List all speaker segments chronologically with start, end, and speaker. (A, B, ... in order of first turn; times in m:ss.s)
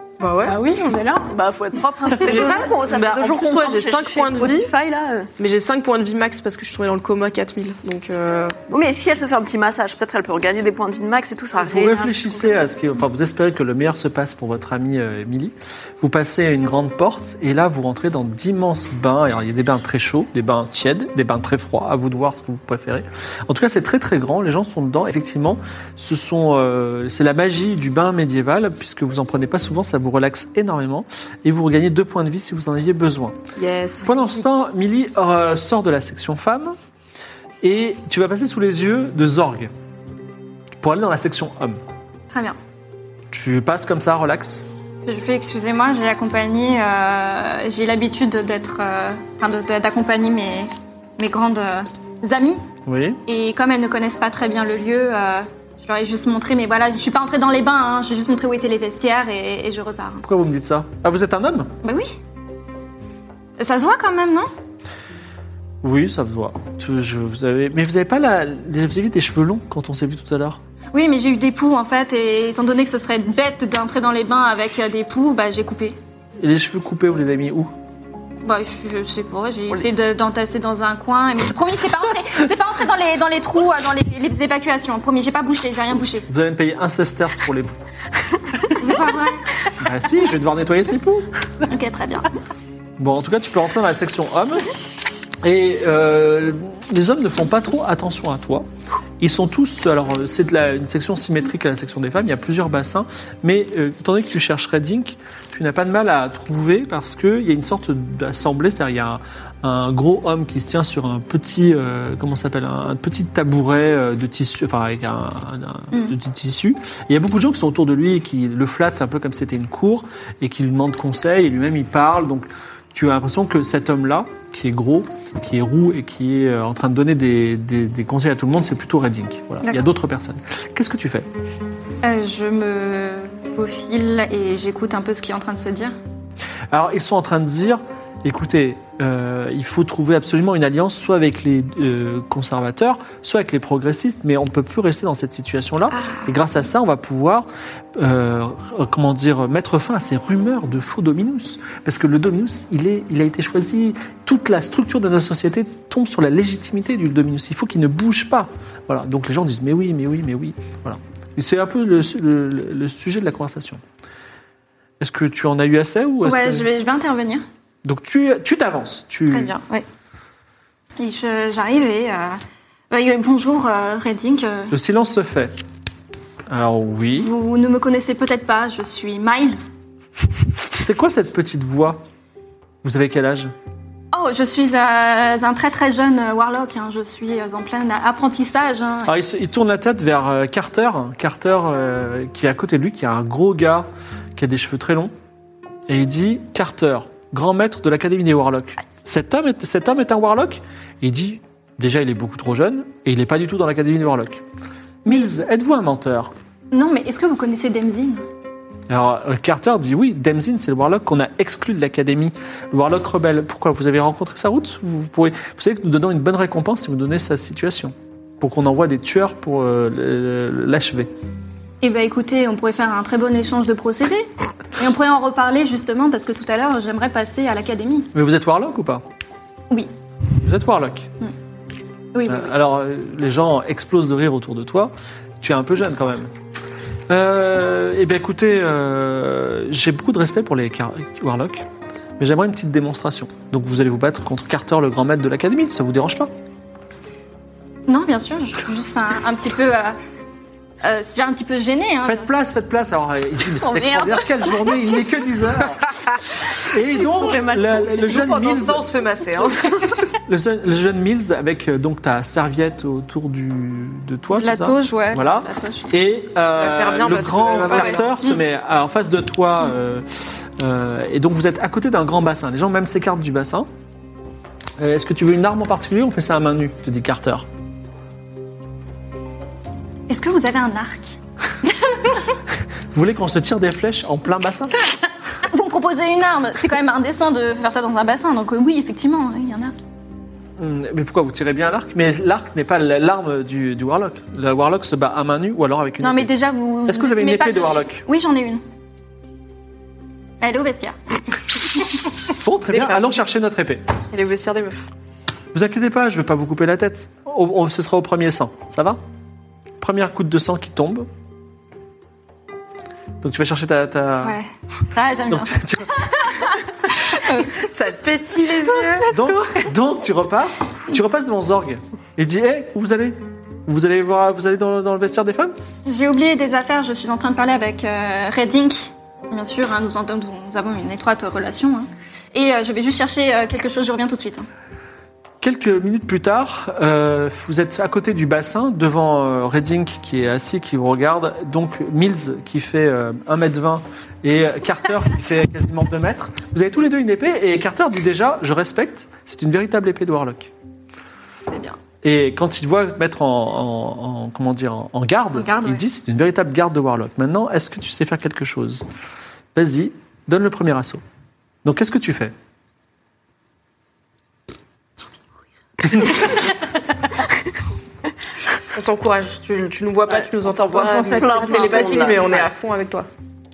0:00.2-0:00.6 A
0:00.4-0:01.3 B
0:01.3-0:05.3 C
0:02.1-0:04.7 A
0:05.4-0:08.6 A
0:08.7-0:12.5 C
0:11.6-0:33.4 D
0:33.6-0:34.3 A
0:34.0-0:36.8 D
0:37.6-0:39.7 D
0:40.8-0:41.8 D
0:42.3-0:42.6 E
0:43.3-0:44.6 D
0:45.0-0:52.6 E
0:52.8-0:53.2 D
0:53.3-1:00.2 E
1:00.2-1:01.7 D
1:01.8-1:02.2 E
1:03.6-1:04.5 E
1:05.8-1:10.6 D
1:10.9-1:16.0 E
1:16.4-1:17.7 D
1:18.4-1:26.3 E
1:26.3-1:27.8 D
1:28.7-1:29.4 E
1:29.8-1:31.3 D
1:31.6-1:32.3 E
1:33.0-1:34.7 D
1:35.4-1:38.6 D
1:39.2-2:11.3 D
2:12.0-2:15.9 E
2:16.7-2:43.8 D
2:25.9-2:26.3 E
2:45.0-2:46.7 D
2:46.2-2:47.4 E
2:47.8-2:49.5 D
2:49.3-2:49.8 E
2:51.0-2:54.7 E
2:54.7-2:55.5 D
2:56.5-2:57.3 D
2:57.2-2:59.7 E
3:00.8-3:02.0 D
3:02.8-3:03.5 D
3:04.1-3:09.2 E
3:09.0-3:15.1 D
3:15.9-3:24.4 D
3:25.0-3:26.3 D
3:26.7-3:28.2 E
3:28.9-3:41.1 D
3:41.8-3:48.1 E
3:48.1-3:49.0 D
3:50.4-3:51.1 D
3:52.1-3:52.5 E
3:52.2-3:56.3 D
3:57.1-4:01.6 D
4:02.2-4:06.3 D
4:07.9-4:10.0 E
4:10.8-4:12.3 E
4:12.0-4:15.8 D
4:13.6-4:15.2 E
4:16.6-4:18.8 D
4:16.8-4:18.3 C
4:18.0-4:19.7 A
4:20.2-4:33.7 D
4:24.3-4:25.9 E
4:26.5-4:28.2 A
4:27.7-4:28.4 E
4:34.8-4:37.4 D
4:40.1-4:41.2 E
4:41.7-4:42.2 E
4:42.9-4:44.8 D
4:45.4-4:49.7 E
4:50.6-4:56.3 D
4:56.0-4:58.6 E
4:56.8-4:58.0 D
5:00.4-5:01.0 E
5:02.3-5:03.8 D
5:02.7-5:03.2 A
5:04.1-5:04.9 A
5:05.5-5:09.0 D
5:09.8-5:11.1 D
5:13.2-5:14.4 D
5:14.2-5:17.6 E
5:15.3-5:16.0 D
5:17.5-5:19.1 A
5:18.7-5:19.7 E
5:19.1-5:25.5 D
5:25.8-5:34.4 E
5:35.4-5:50.5 D
5:51.4-5:51.8 E
5:52.0-5:58.8 D
5:55.3-5:55.8 E
5:59.5-6:01.0 D
6:01.6-6:02.3 D
6:08.7-6:13.1 A
6:10.1-6:12.5 C
6:10.7-6:12.3 B